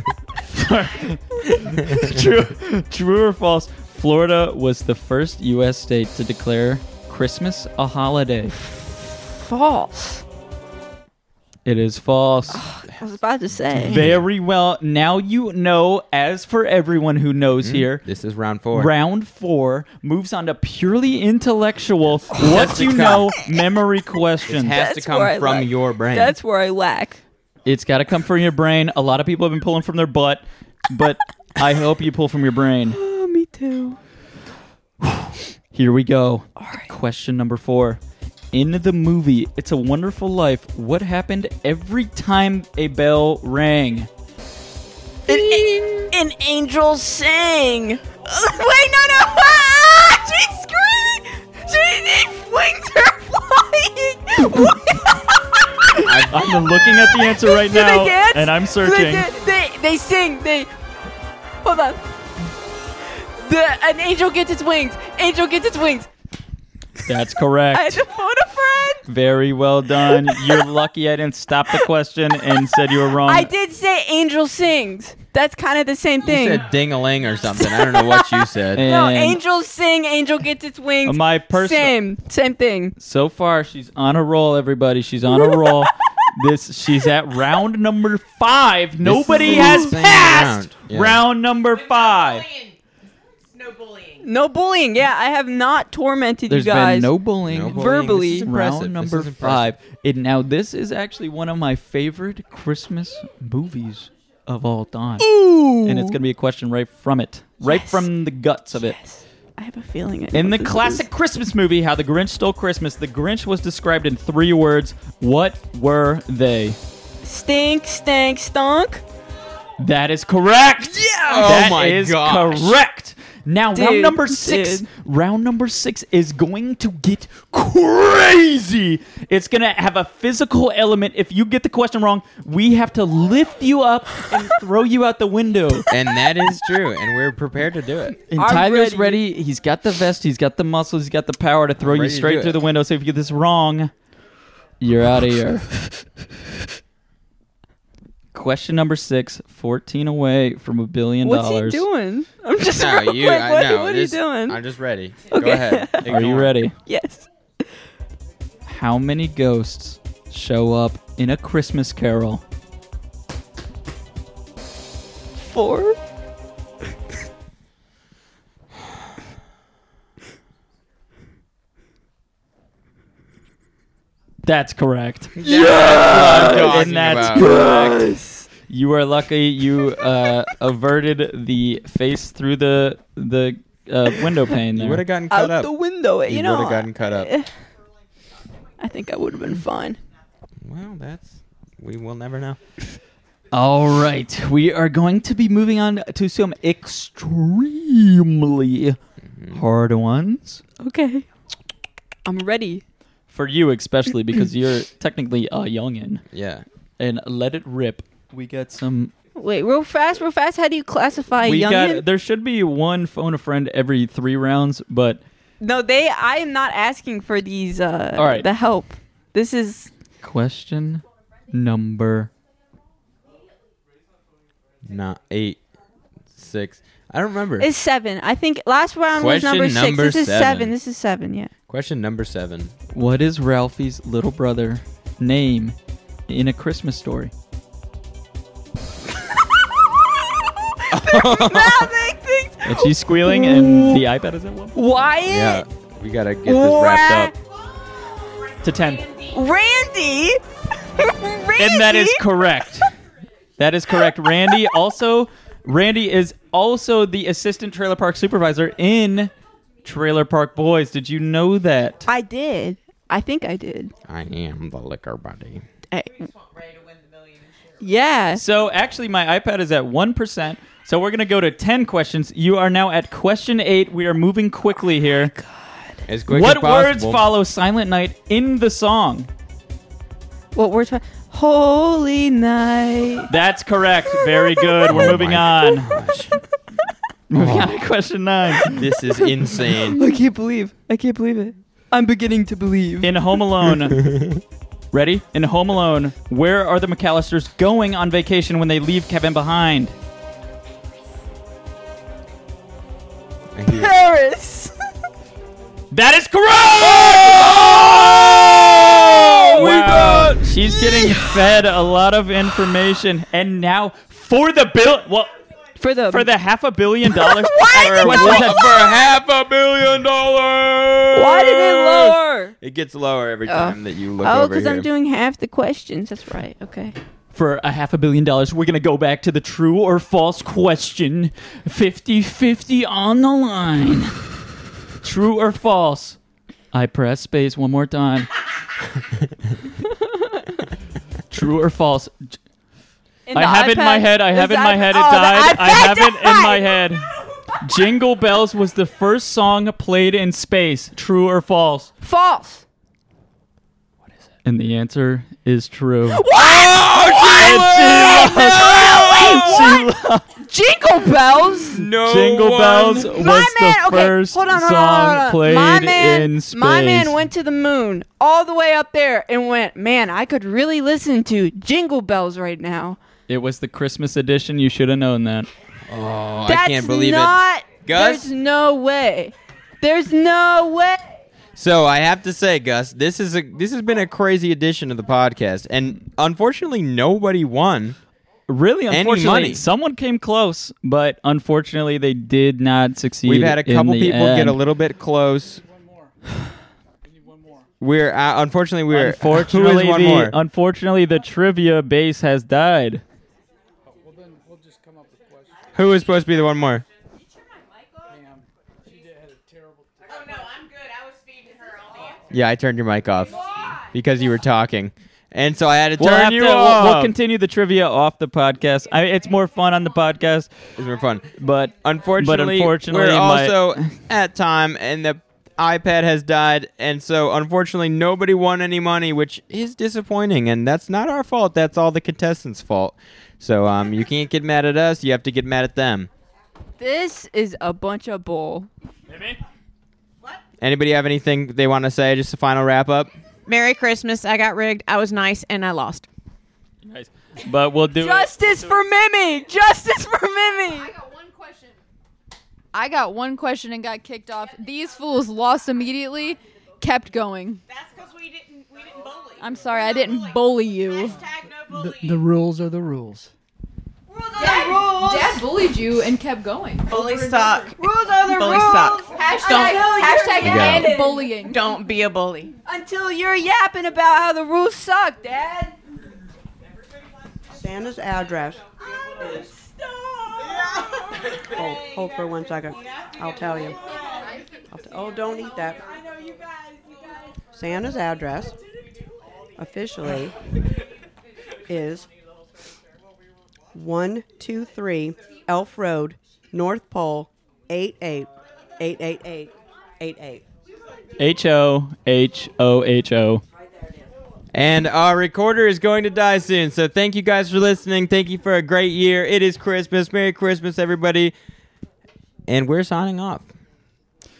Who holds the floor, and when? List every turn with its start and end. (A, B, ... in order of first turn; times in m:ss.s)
0:00.5-0:08.6 A
0:08.6-0:10.2 B
0:11.6-0:12.6 A
0:12.5-0:14.0 B
0:13.7-0:14.2 C
0:13.9-0:18.0 A
0:17.6-0:18.9 C
0:18.7-0:24.8 A
0:22.3-0:23.4 C
0:24.5-0:26.3 C
0:24.7-0:27.2 B
0:27.7-0:33.0 A
0:32.9-0:34.0 B
0:35.0-0:38.0 A
0:36.6-0:36.9 B
0:38.5-0:44.1 A
0:45.3-0:56.0 B
0:45.3-0:45.8 A
0:56.0-0:56.9 C
0:56.3-0:59.3 A
0:57.5-1:00.7 B
1:01.6-1:02.5 B
1:03.2-1:06.1 B
1:07.1-1:08.0 A
1:07.7-1:09.0 B
1:09.1-1:13.5 A
1:10.1-1:10.6 B
1:13.2-1:16.7 B
1:16.2-1:18.8 C
1:17.5-1:23.0 B
1:18.8-1:19.4 A
1:21.0-1:22.0 A
1:23.0-1:32.5 A
1:29.0-1:31.2 C
1:29.4-1:29.9 B
1:34.2-1:38.5 B
1:36.5-1:49.0 A
1:37.4-1:39.7 C
1:45.3-1:46.1 B
1:47.6-1:48.1 B
1:48.7-1:51.0 B
1:50.3-1:56.8 A
1:57.2-1:59.0 B
1:59.8-2:15.9 A
2:01.2-2:02.8 C
2:03.8-2:04.8 B
2:15.9-2:18.2 C
2:18.3-2:23.9 A
2:18.4-2:19.2 B
2:21.8-2:22.6 C
2:24.8-2:26.0 A
2:28.3-2:31.8 A
2:31.2-2:34.6 B
2:32.8-2:36.6 C
2:35.3-2:36.0 B
2:36.0-2:36.8 A
2:36.8-2:37.7 B
2:38.7-2:42.4 A
2:45.4-2:46.0 B
2:54.4-2:58.0 A
2:55.4-2:57.7 C
2:55.5-2:56.6 B
2:57.2-2:58.5 B
2:58.7-3:05.0 A
3:04.7-3:05.7 C
3:05.3-3:07.5 B
3:06.3-3:07.3 C
3:08.8-3:10.0 B
3:10.6-3:12.6 C
3:13.5-3:19.0 A
3:19.5-3:20.6 A
3:20.8-3:21.3 B
3:22.2-3:22.8 B
3:23.3-3:26.2 A
3:26.3-3:26.6 C
3:27.0-3:29.1 A
3:29.4-3:32.0 B
3:31.4-3:35.2 A
3:35.6-3:39.9 B
3:38.2-3:38.5 A
3:40.2-3:42.3 A
3:44.9-3:45.6 C
3:46.4-3:47.7 C
3:47.6-3:51.5 B
3:49.2-3:50.7 C
3:51.7-3:52.7 C
3:52.9-3:55.8 A
3:56.3-3:57.3 A
3:59.6-4:00.0 B
4:00.8-4:04.0 B
4:00.9-4:01.9 C
4:02.6-4:04.8 A
4:04.8-4:05.6 B
4:05.3-4:07.3 C
4:06.4-4:07.3 B
4:08.6-4:09.1 A
4:09.3-4:12.2 B
4:11.6-4:12.9 A
4:13.6-4:19.3 A
4:19.8-4:22.0 A
4:22.1-4:23.9 B
4:24.1-4:25.6 C
4:25.9-4:26.2 B
4:27.8-4:28.4 B
4:28.4-4:35.3 A
4:35.3-4:36.0 B
4:36.1-4:37.3 C
4:36.3-4:39.3 A
4:40.5-4:43.3 B
4:43.3-4:45.9 A
4:44.9-4:46.4 C
4:47.3-4:48.8 A
4:47.3-4:47.8 C
4:48.7-4:50.0 C
4:49.7-4:53.2 B
4:53.0-4:54.1 A
4:54.0-4:54.3 C
4:54.9-5:00.0 A
5:03.6-5:03.9 C
5:03.7-5:04.7 B
5:05.9-5:07.5 A
5:06.9-5:10.4 C
5:09.1-5:10.0 B
5:09.6-5:15.3 A
5:10.6-5:11.4 B
5:15.8-5:16.3 B
5:16.1-5:18.7 A
5:17.2-5:18.8 B
5:17.6-5:24.9 C
5:21.1-5:22.6 B
5:23.5-5:27.0 B
5:27.3-5:34.2 A
5:35.0-5:36.2 A
5:36.7-5:38.3 A
5:40.2-5:40.4 B
5:41.3-5:42.4 A
5:43.3-5:46.8 B
5:43.3-5:47.1 A
5:47.6-5:51.9 A
5:52.0-5:52.6 B
5:54.4-5:56.2 A
5:56.1-6:01.8 B
5:56.3-5:59.7 C
5:57.4-6:00.3 A
6:01.7-6:03.1 C
6:02.0-6:07.2 A
6:03.0-6:13.0 B
6:13.3-6:15.5 A
6:15.9-6:18.3 C
6:16.5-6:21.0 B
6:21.6-6:28.0 C
6:28.5-6:34.6 A
6:28.9-6:29.6 C
6:33.3-6:35.6 C
6:37.2-6:37.6 D
6:37.8-6:40.4 C
6:38.9-6:43.0 A
6:44.0-6:45.4 D
6:45.7-6:46.8 C
6:48.2-6:48.4 D
6:49.1-6:49.6 D
6:52.3-6:57.1 C
6:56.0-7:00.5 A
7:00.8-7:16.1 C
7:01.4-7:03.6 A
7:16.8-7:18.7 B
7:19.1-7:19.4 A
7:20.6-7:23.2 C
7:23.5-7:26.1 E
7:26.8-7:28.4 A
7:28.0-7:30.9 B
7:32.7-7:37.6 F
7:39.4-7:41.2 F
7:41.6-7:43.3 D
7:44.2-7:45.4 B
7:44.4-7:47.7 F
7:46.9-7:50.8 E
7:47.8-7:51.3 B
7:49.1-7:51.7 F
7:50.4-7:50.9 C
7:51.4-7:52.5 E
7:52.7-7:55.8 B
7:57.6-7:58.6 G
8:01.5-8:03.8 G
8:04.7-8:05.9 G
8:07.5-8:08.6 G
8:09.6-8:10.4 G
8:11.7-8:12.1 G
8:13.7-8:20.4 G
8:21.2-8:23.4 A
8:24.5-8:31.3 C
8:32.5-8:33.5 C